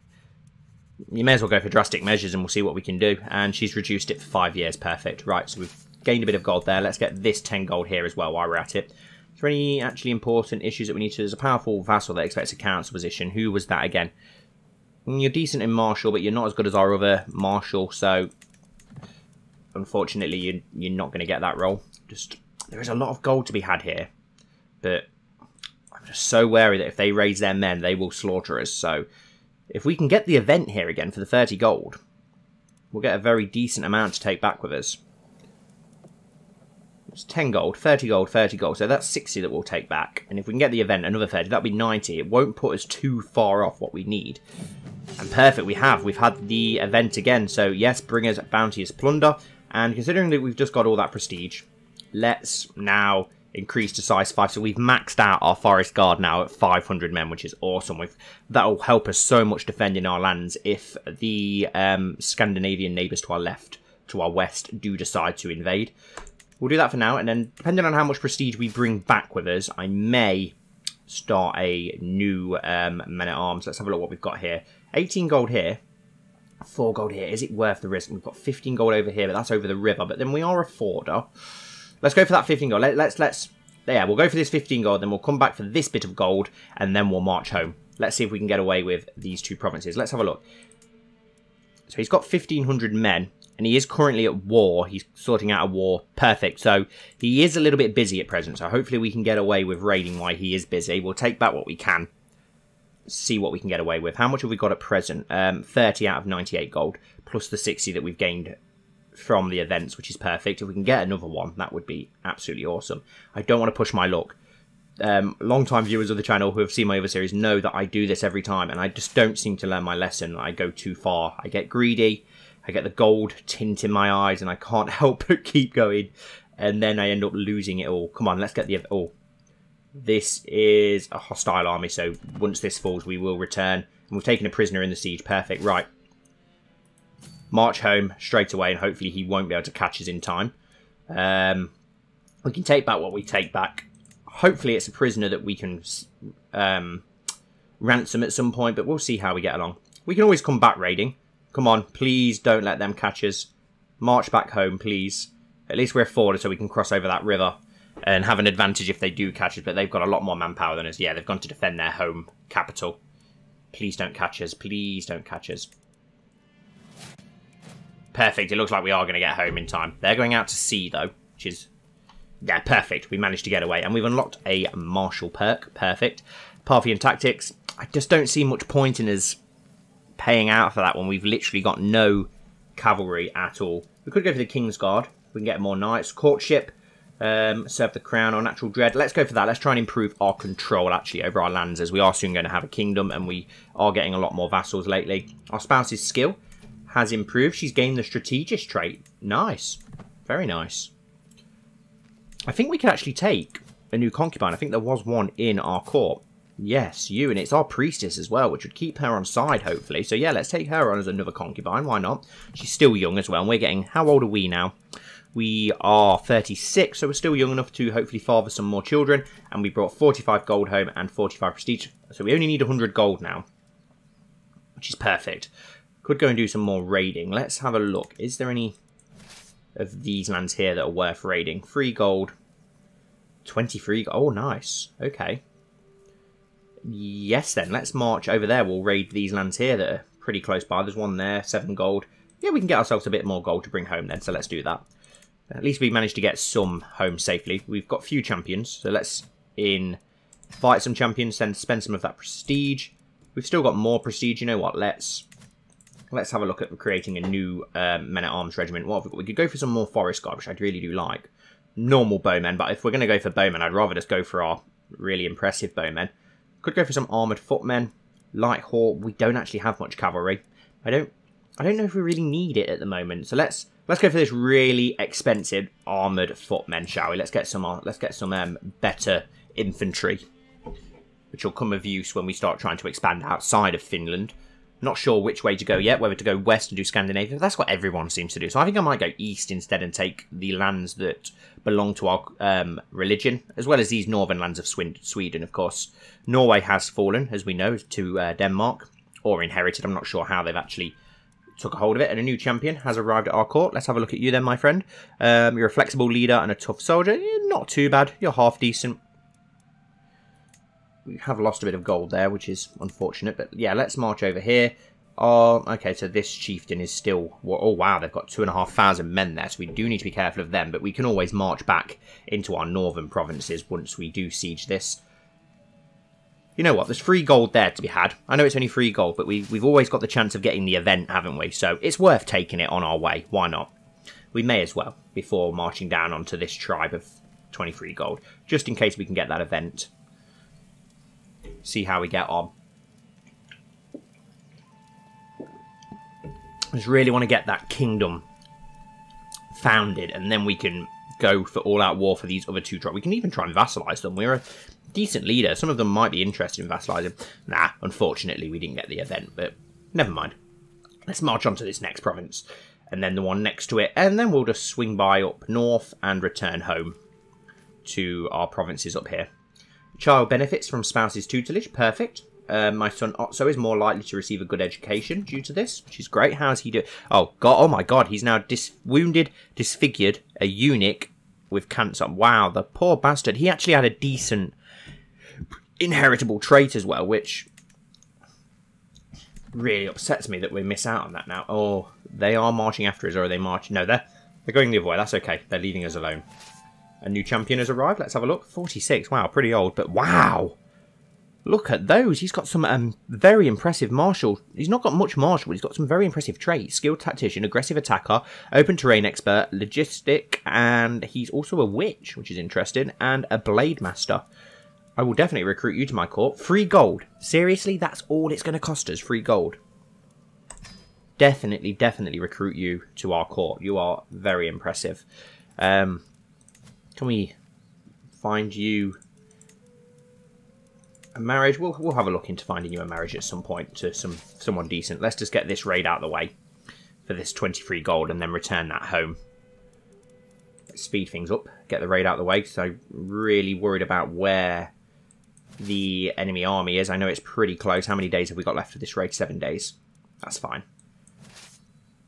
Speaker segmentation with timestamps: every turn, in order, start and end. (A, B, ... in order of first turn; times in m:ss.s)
0:01.1-0:14.1 A
0:15.0-0:18.3 A
0:19.7-0:24.1 A
0:24.8-0:25.1 A
0:25.9-0:29.0 A
0:29.7-0:32.0 A
0:32.9-0:35.0 A
0:37.1-0:44.4 A
0:45.2-1:05.9 A
1:06.6-1:10.5 A
1:11.1-1:15.8 A
1:16.6-1:21.3 A
1:22.0-1:30.4 A
1:31.9-1:42.1 A
1:43.1-1:48.5 A
1:49.1-1:54.4 A
1:55.0-2:09.1 A
2:09.9-2:15.9 A
2:17.5-2:20.5 A
2:21.1-2:21.7 A
2:22.4-2:27.0 A
2:27.8-2:43.0 A
2:43.7-2:45.7 A
2:48.1-2:51.7 A
2:52.4-2:59.4 A
3:00.2-3:20.9 A
3:22.5-3:34.7 A
3:35.3-3:43.4 A
3:44.8-3:45.5 A
3:46.0-3:48.7 A
3:49.8-3:52.3 A
3:53.4-3:55.4 A
3:56.8-4:04.8 A
4:05.5-4:10.0 A
4:10.6-4:15.2 A
4:16.1-4:26.1 A
4:26.6-4:40.2 A
4:41.3-5:01.0 A
5:01.6-5:09.0 A
5:11.0-5:25.0 A
5:26.6-5:33.7 A
5:34.3-5:39.9 A
5:41.6-5:42.5 A
5:46.7-5:48.2 A
5:49.5-6:00.3 A
6:01.1-6:07.0 A
6:07.8-6:09.3 A
6:10.0-6:24.5 A
6:25.8-6:27.5 A
6:29.5-6:36.2 A
6:37.0-6:40.6 A
6:41.4-6:54.2 A
6:55.0-6:59.6 A
7:01.2-7:05.0 A
7:05.6-7:06.0 A
7:07.0-7:07.3 A
7:08.2-7:09.0 A
7:11.1-7:16.3 A
7:17.0-7:19.2 A
7:20.7-7:24.7 A
7:25.6-7:30.6 A